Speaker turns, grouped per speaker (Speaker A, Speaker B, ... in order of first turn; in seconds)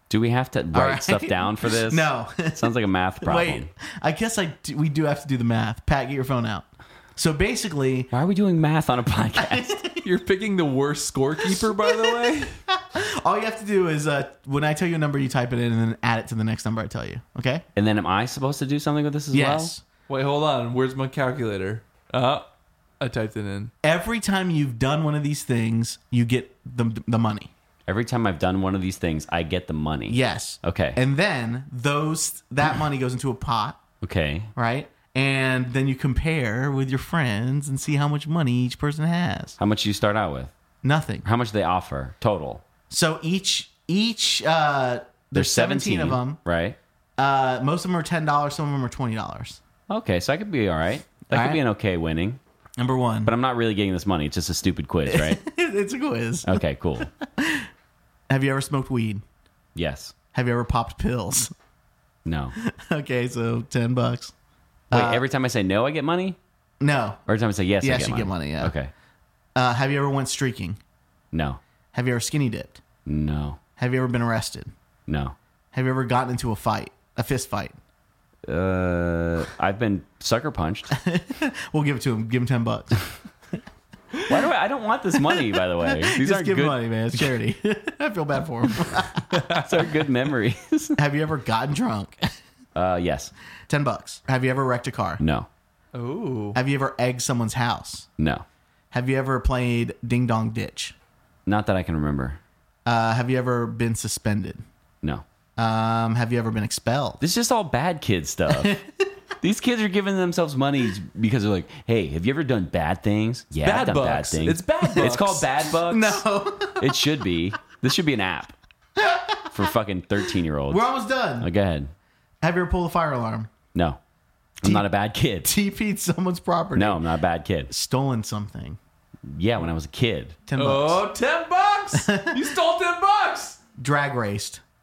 Speaker A: 0.1-3.7, 8.1-9.8, 17.8-19.7, 27.9-31.0, 34.0-34.5, 39.6-40.5, 41.2-42.6, 45.3-46.8, 49.9-52.4, 53.2-55.4, 56.5-57.1, 59.8-60.1, 62.2-62.5, 64.9-66.4, 67.3-68.9, 71.3-71.6, 73.1-73.6, 75.1-75.3, 78.5-80.9, 84.2-86.8, 89.6-91.0, 92.8-93.3, 95.2-95.5, 98.2-98.5, 101.5-102.4, 107.2-108.8, 109.4-116.2, 116.8-118.6, 119.5-120.9, 121.4-121.9, 123.7-124.0, 124.6-125.5, 126.8-127.7, 129.3-130.4
Speaker B: 0.7-2.7, 3.2-8.1, 9.3-10.1, 11.5-17.6, 19.3-19.8, 23.8-27.5, 30.1-33.8, 34.6-39.6, 40.8-41.2, 42.9-46.4, 47.2-49.6, 51.3-51.6, 52.8-53.3, 55.1-57.7, 58.3-59.2, 60.3-61.5, 62.6-64.3, 64.9-65.2, 66.8-67.2, 67.8-68.8, 69.6-70.8, 71.9-72.8, 73.8-74.7, 75.7-77.8, 80.9-83.0, 85.3-89.4, 91.0-92.2, 93.7-95.2, 96.5-98.1, 98.9-101.0, 102.9-104.6, 105.6-107.2, 108.5-108.9, 115.8-117.0, 119.0-119.7, 120.7-121.5, 122.4-123.5, 125.4-127.0, 127.7-128.8, 130.5-131.1, 131.9-132.5, 133.8-134.6
Speaker C: 10.0-12.6, 20.1-22.4, 23.0-23.7, 89.3-89.6, 95.9-96.6, 113.7-115.5, 130.6-133.6